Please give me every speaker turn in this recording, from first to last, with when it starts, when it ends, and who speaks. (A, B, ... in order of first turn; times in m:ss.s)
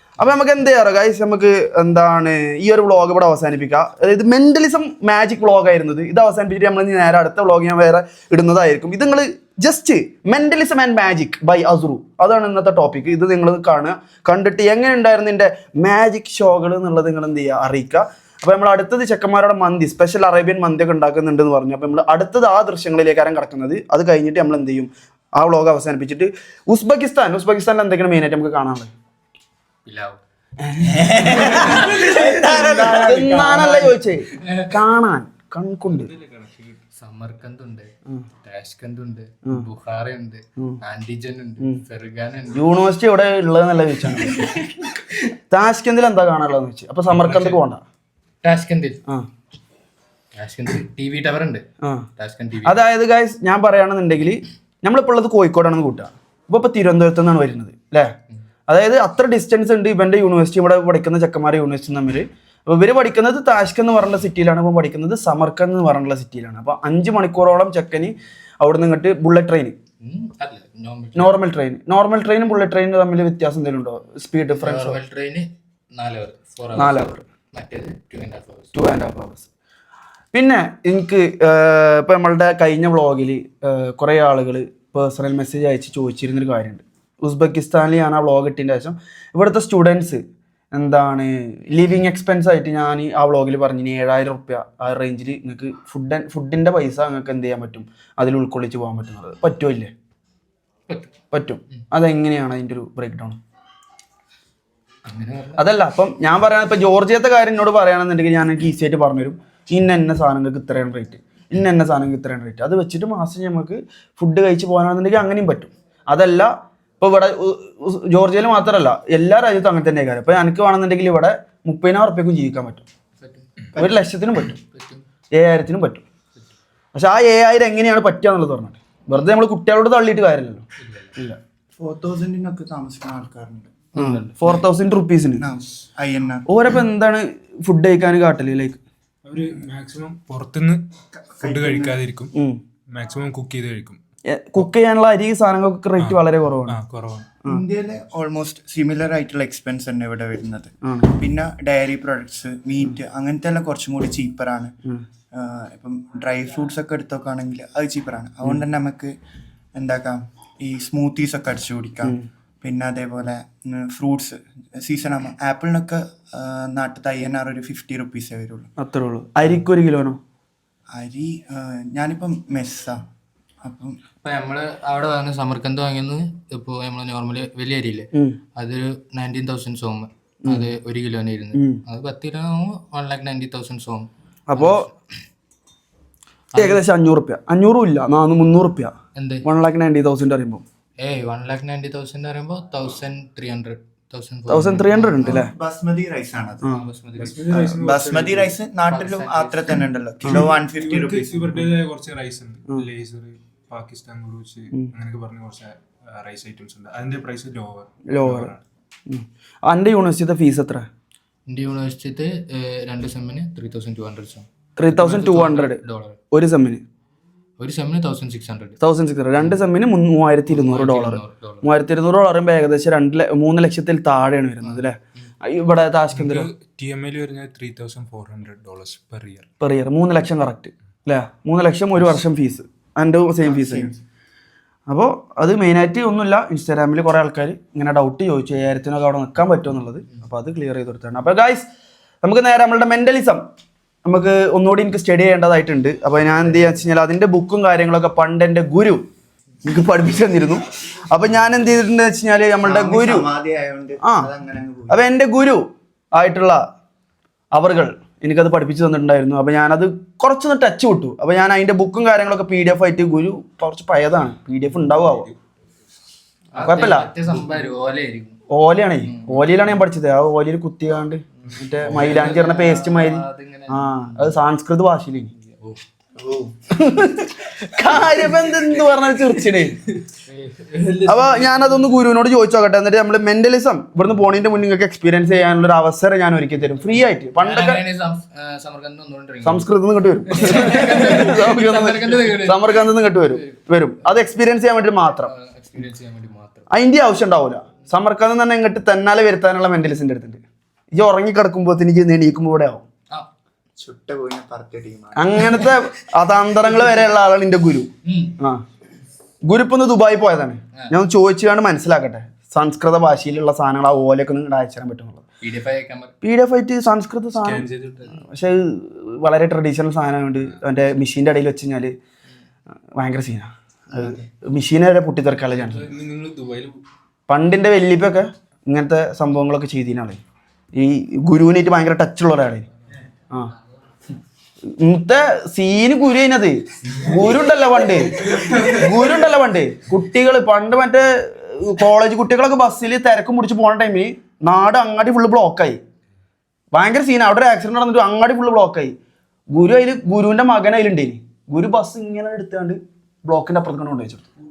0:00.2-0:28.9 A
0:29.8-0:30.2 B
0:30.6-0:31.5 A
0:30.9-0:34.0 C
0:31.6-0:32.0 B
0:32.6-0:36.1 A
0:34.4-0:34.7 B
0:35.9-0:36.8 D
0:37.0-0:42.6 B
0:42.5-0:44.4 A
0:45.5-0:47.8 A
0:47.1-0:47.6 D
0:48.4-0:49.0 B
0:50.4-0:51.6 B
0:52.2-0:52.8 B
0:52.6-0:58.1 A
0:58.7-1:09.8 A
1:10.0-1:11.4 B
1:11.2-1:15.0 A
1:14.5-1:18.7 B
1:16.8-1:17.2 A
1:18.7-1:19.5 A
1:20.3-1:30.2 A
1:30.7-1:39.9 A
1:41.3-1:43.4 A
1:45.1-1:45.7 B
1:45.6-2:02.9 A
2:03.2-2:03.5 B
2:03.8-2:04.6 A
2:04.6-2:05.0 B
2:05.4-2:06.1 A
2:06.9-2:10.6 A
2:10.8-2:11.2 B
2:11.8-2:13.7 C
2:13.9-2:14.6 B
2:14.0-2:15.4 A
2:15.4-2:16.5 C
2:16.5-2:18.8 A
2:19.2-2:20.8 D
2:21.3-2:22.0 C
2:21.4-2:22.3 D
2:22.3-2:22.6 A
2:22.9-2:24.0 D
2:24.3-2:26.8 A
2:26.0-2:27.3 D
2:27.5-2:34.8 C
2:30.8-2:31.2 A
2:35.3-2:39.2 C
2:39.8-2:48.7 C
2:48.8-2:50.2 A
2:50.9-2:53.0 C
2:53.6-2:54.0 C
2:54.2-3:04.9 B
3:01.6-3:01.8 A
3:04.5-3:04.9 A
3:06.5-3:06.8 B
3:06.6-3:10.6 A
3:09.2-3:09.4 B
3:11.0-3:15.5 B
3:14.5-3:15.5 A
3:15.3-3:16.7 C
3:16.7-3:17.6 B
3:17.2-3:18.6 D
3:17.6-3:21.7 C
3:18.9-3:19.9 B
3:20.2-3:20.5 A
3:20.3-3:28.6 D
3:28.1-3:28.5 A
3:29.1-3:30.9 A
3:31.5-3:36.2 B
3:34.8-3:35.8 A
3:36.3-3:36.8 A
3:37.6-3:38.8 B
3:38.8-3:46.5 A
3:40.5-3:41.7 B
3:46.1-3:49.5 D
3:49.6-3:53.9 A
3:53.5-3:54.0 C
3:54.9-4:01.7 A
4:02.2-4:03.5 A
4:04.0-4:09.0 A
4:09.6-4:13.3 A
4:12.6-4:15.0 C
4:14.0-4:14.3 A
4:14.9-4:16.6 A
4:17.5-4:25.3 A
4:26.5-4:28.4 B
4:26.6-4:27.1 A
4:28.5-4:35.3 A
4:29.0-4:29.5 B
4:31.4-4:34.3 B
4:31.8-4:32.2 D
4:35.4-4:35.8 B
4:36.2-4:36.5 C
4:36.7-4:39.9 A
4:40.3-4:41.3 B
4:41.1-4:47.8 A
4:47.4-4:49.7 B
4:49.4-4:55.3 A
4:50.3-4:53.6 B
4:55.2-4:56.7 B
4:56.7-5:02.8 A
5:03.8-5:05.6 C
5:05.2-5:08.6 A
5:08.0-5:08.4 B
5:09.5-5:15.2 A
5:15.4-5:16.1 B
5:16.2-5:22.0 A
5:17.4-5:18.2 D
5:23.0-5:25.9 A
5:25.5-5:26.8 D
5:27.3-5:30.2 A
5:30.7-5:32.7 A
5:34.7-5:45.8 A
5:46.7-5:49.0 A
5:49.5-5:54.3 A